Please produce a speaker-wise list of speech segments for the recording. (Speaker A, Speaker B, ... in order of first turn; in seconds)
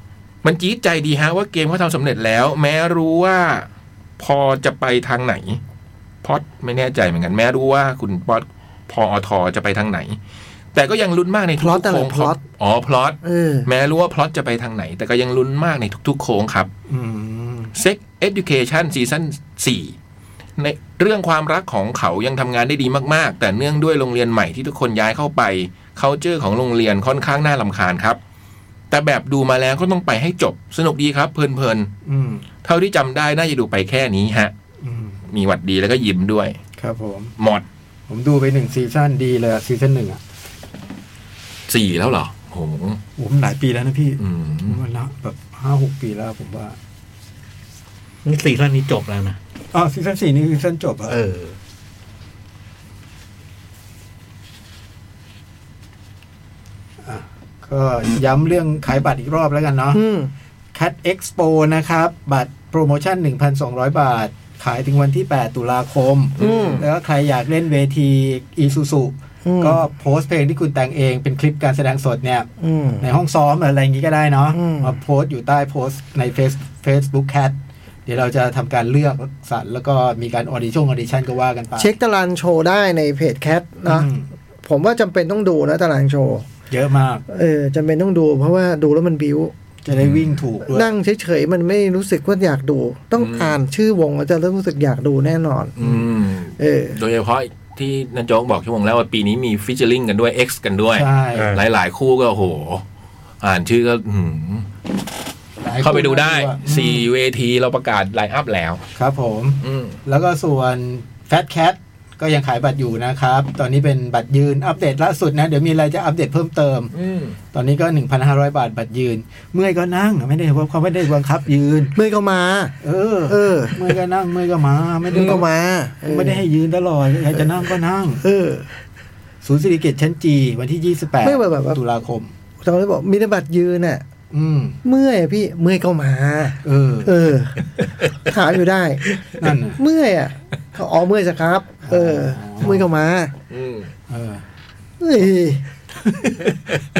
Speaker A: 0.4-3.7, 4.2-5.6, 6.2-10.2, 10.7-16.7, 17.8-19.9, 20.6-28.2, 28.9-31.9, 32.6-34.5, 35.3-36.6, 37.4-37.6, 41.7-43.0, 44.2-44.8, 66.4-66.8, 89.9-90.3, 93.2-93.6, 95.8-102.8, 103.4-104.7, 105.8-108.8, 109.6-110.0, 116.9-117.4, 143.5-143.9, 146.2-146.8
Speaker B: 11.6-12.4, 13.2-13.7, 59.9-60.3, 66.4-66.8, 69.4-69.8, 72.6-73.1, 74.5-75.0, 81.8-84.1, 84.6-86.5, 87.3-89.5, 90.7-95.8, 96.6-97.0, 121.9-123.9, 125.1-126.4, 128.2-128.7, 131.2-131.8, 132.6-134.0, 134.8-137.6, 138.2-139.2, 139.8-143.3, 145.0-145.6
Speaker C: 16.9-17.8, 32.0-32.4, 34.8-35.2, 36.8-37.3, 38.1-40.2, 43.2-46.8, 49.7-51.1, 57.0-60.0, 60.7-72.5, 73.0-81.9, 83.8-84.3, 86.7-87.2, 89.8-90.9, 100.9-101.6, 105.6-107.0, 109.0-116.9, 117.5-121.9, 122.8-125.5, 126.0-128.2, 129.4-132.3, 134.3-134.8, 136.6-137.1, 139.3-139.8, 141.8-142.9, 144.1-144.4
Speaker D: 48.2-49.4, 51.1-51.6, 101.3-101.6